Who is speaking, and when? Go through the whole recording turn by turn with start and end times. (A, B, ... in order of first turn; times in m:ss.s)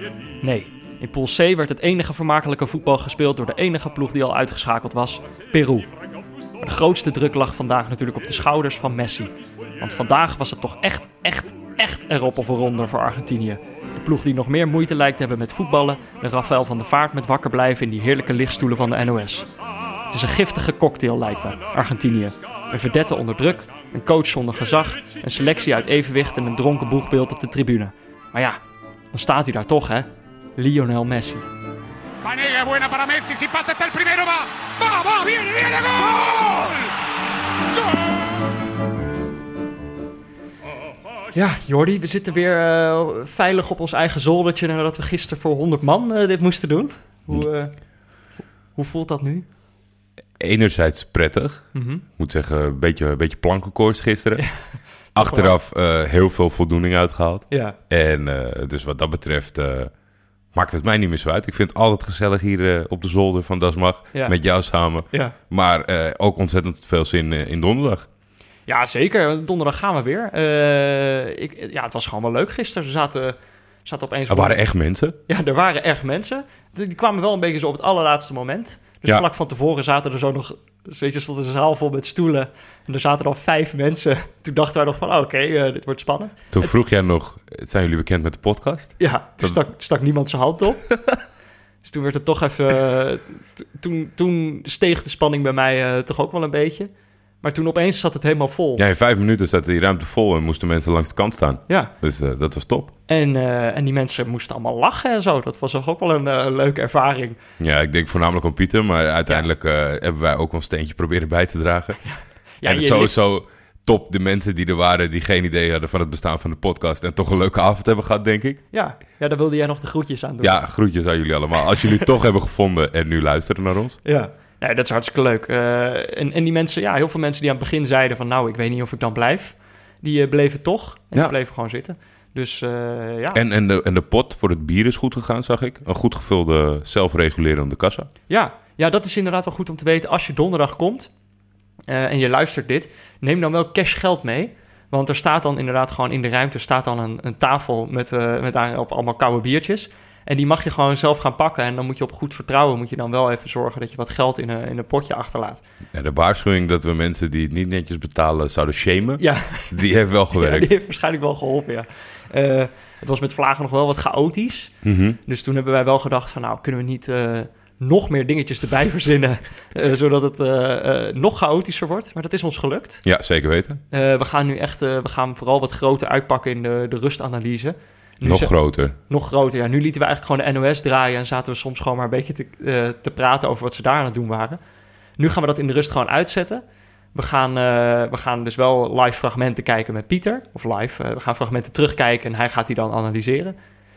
0:00.4-0:05.9 A
0:06.6-0:19.5 A
0:20.1-0:28.6 A
0:29.1-0:31.5 A
0:32.2-0:36.9 B
0:41.3-0:47.9 A
0:48.8-0:49.4 A
0:50.4-0:54.5 C
0:51.7-0:52.0 A
0:54.4-0:55.5 A
0:55.1-0:59.9 C
0:57.5-0:57.8 A
1:00.5-1:08.1 C
1:08.7-1:14.6 A
1:14.3-1:15.2 C
1:15.3-1:26.7 A
1:26.5-1:29.6 C
1:29.0-1:31.0 A
1:31.8-1:36.9 A
1:37.4-1:38.8 A
1:38.8-1:42.9 C
1:43.1-1:47.4 A
1:47.6-1:58.6 C
1:52.0-1:53.2 A
1:58.7-2:00.6 A
2:00.4-2:04.0 C
2:04.0-2:13.4 A
2:13.3-2:18.1 C
2:18.3-2:21.1 A
2:21.9-2:35.6 A
2:35.9-2:40.7 C
2:39.2-2:39.8 A
2:40.3-2:53.0 A
2:44.8-2:45.2 C
2:53.0-2:53.8 C
2:53.9-3:04.6 A
2:58.2-2:59.0 C
3:05.2-3:06.6 A
3:07.1-3:13.6 A